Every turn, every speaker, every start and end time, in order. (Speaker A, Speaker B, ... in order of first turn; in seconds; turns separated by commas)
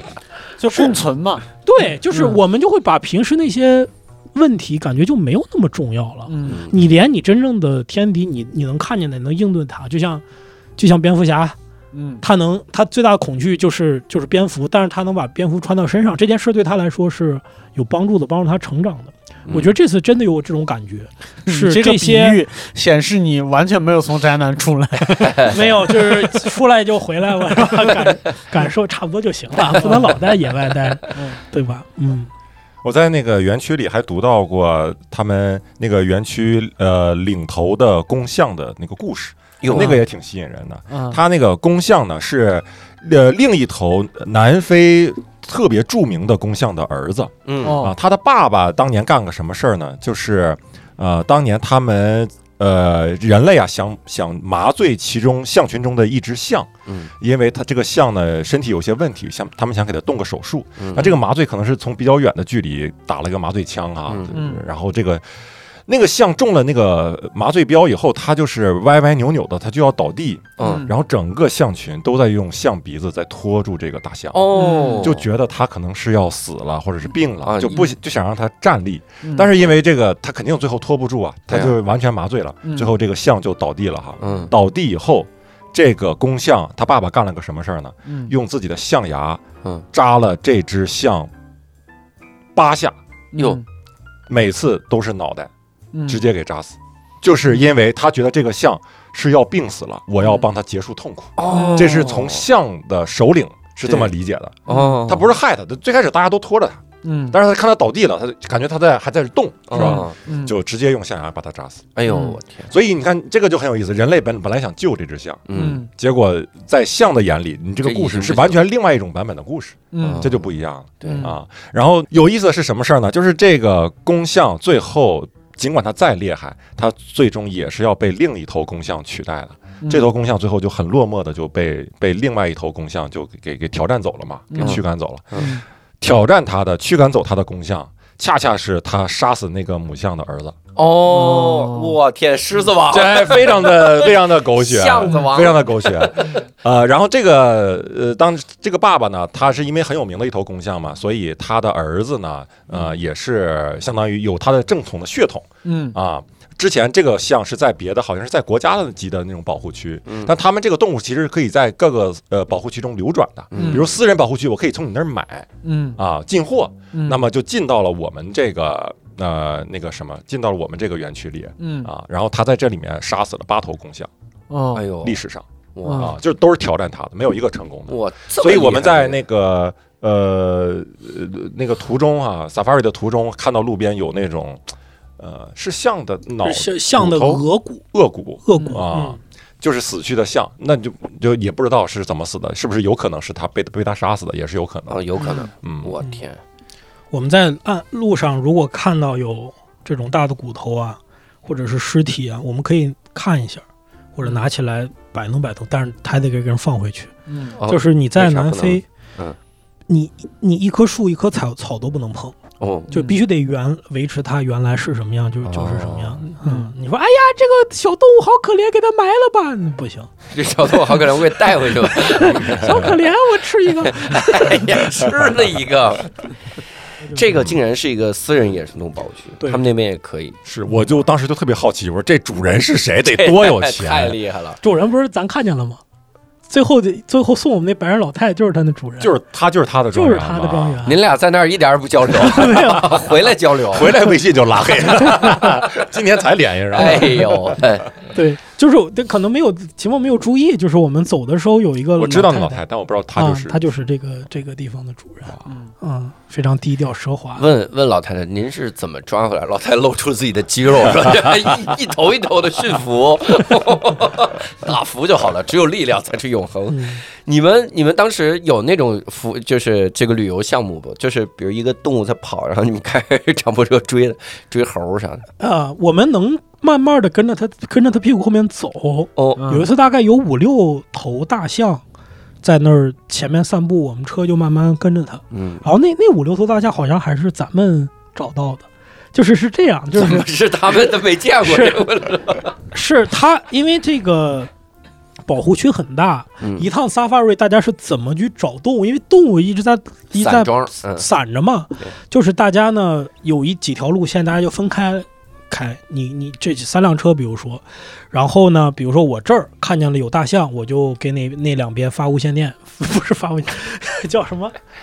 Speaker A: 0.6-1.4, Speaker B: 1.6-10.2, Speaker A: 2.1-2.4, Speaker A: 6.3-6.6, Speaker C: 6.4-6.7, Speaker B: 10.8-11.6, Speaker A: 11.9-12.2, Speaker B: 12.2-22.4, Speaker A: 21.5-26.4, Speaker C: 25.2-25.6, Speaker B: 25.5-32.3, Speaker A: 27.7-28.1, Speaker A: 29.7-30.1, Speaker A: 31.1-31.4, Speaker D: 32.8-65.2, Speaker C: 39.6-40.0, Speaker A: 39.7-40.0, Speaker A: 40.9-41.2, Speaker C: 47.5-47.9, Speaker A: 47.6-47.9, Speaker C: 56.9-57.1, Speaker C: 60.8-61.2, Speaker C: 64.1-64.3, Speaker A: 64.3-64.6, Speaker D: 65.9-89.4, Speaker C: 70.6-70.9, Speaker A: 70.6-70.9, Speaker C: 74.3-75.2, Speaker A: 74.5-75.1, Speaker C: 77.4-77.9, Speaker A: 77.7-77.9, Speaker A: 79.2-79.5, Speaker C: 81.5-81.7, Speaker A: 82.7-82.9, Speaker C: 84.2-84.5, Speaker A: 88.1-88.3, Speaker D: 89.9-91.3, Speaker D: 92.5-93.0, Speaker A: 93.3-93.6, Speaker C: 93.3-93.6, Speaker D: 94.3-95.5, Speaker A: 95.9-96.2, Speaker D: 96.0-111.9, Speaker C: 101.4-102.4, Speaker A: 101.5-102.0, Speaker C: 103.8-104.1, Speaker C: 104.7-105.3, Speaker A: 104.7-105.0, Speaker A: 107.0-107.4, Speaker C: 109.7-110.2, Speaker A: 109.7-110.5, Speaker C: 112.0-112.7, Speaker A: 112.1-112.4, Speaker D: 112.7-140.5, Speaker C: 115.5-115.8, Speaker A: 115.5-115.9, Speaker C: 117.8-118.6, Speaker A: 119.9-120.3, Speaker C: 120.0-120.4, Speaker C: 121.0-121.3, Speaker A: 121.0-121.3, Speaker A: 129.8-130.1, Speaker A: 134.5-134.8, Speaker C: 134.6-135.5, Speaker A: 135.3-135.6, Speaker C: 140.8-146.4, Speaker A: 141.1-141.9, Speaker D: 142.9-174.1, Speaker A: 155.6-155.9, Speaker C: 160.1-160.3, Speaker C: 163.5-163.9, Speaker A: 163.5-163.8, Speaker A: 165.6-166.0, Speaker A: 166.9-167.2, Speaker A: 171.6-171.9, Speaker A: 174.5-174.8, Speaker C: 174.7-175.2, Speaker D: 175.0-195.1, Speaker C: 175.7-176.1, Speaker A: 175.8-176.2, Speaker C: 177.9-179.2, Speaker B: 186.4-187.8, Speaker B: 188.4-189.2, Speaker C: 194.9-196.4, Speaker A: 195.2-195.4, Speaker D: 195.6-195.9, Speaker B: 197.1-203.6, Speaker B: 204.2-207.1, Speaker A: 207.3-207.6, Speaker C: 207.6-209.4, Speaker B: 207.7-208.8, Speaker B: 209.9-212.3, Speaker C: 212.6-212.9, Speaker A: 212.9-213.2, Speaker B: 212.9-220.1, Speaker C: 215.4-216.3, Speaker C: 220.3-222.4, Speaker B: 221.9-224.6, Speaker D: 222.2-223.0, Speaker C: 223.8-226.1, Speaker C: 227.1-230.4, Speaker D: 230.4-234.2, Speaker C: 233.1-234.6, Speaker B: 234.6-235.8, Speaker B: 236.5-239.1, Speaker D: 239.0-240.8, Speaker B: 239.9-241.0, Speaker C: 240.8-244.0, Speaker B: 242.2-242.9, Speaker D: 243.7-247.6, Speaker C: 246.7-247.9, Speaker B: 248.1-252.6, Speaker D: 251.9-253.6, Speaker B: 253.2-257.4, Speaker A: 255.5-255.7, Speaker C: 257.4-275.2, Speaker B: 266.7-267.0, Speaker B: 275.4-281.8, Speaker C: 279.1-279.4, Speaker A: 279.4-279.7, Speaker B: 282.4-290.3, Speaker C: 285.3-285.6, Speaker C: 289.9-292.5, Speaker B: 291.4-291.8, Speaker B: 292.7-294.5, Speaker B: 295.3-314.5, Speaker C: 296.4-296.7, Speaker C: 300.2-301.1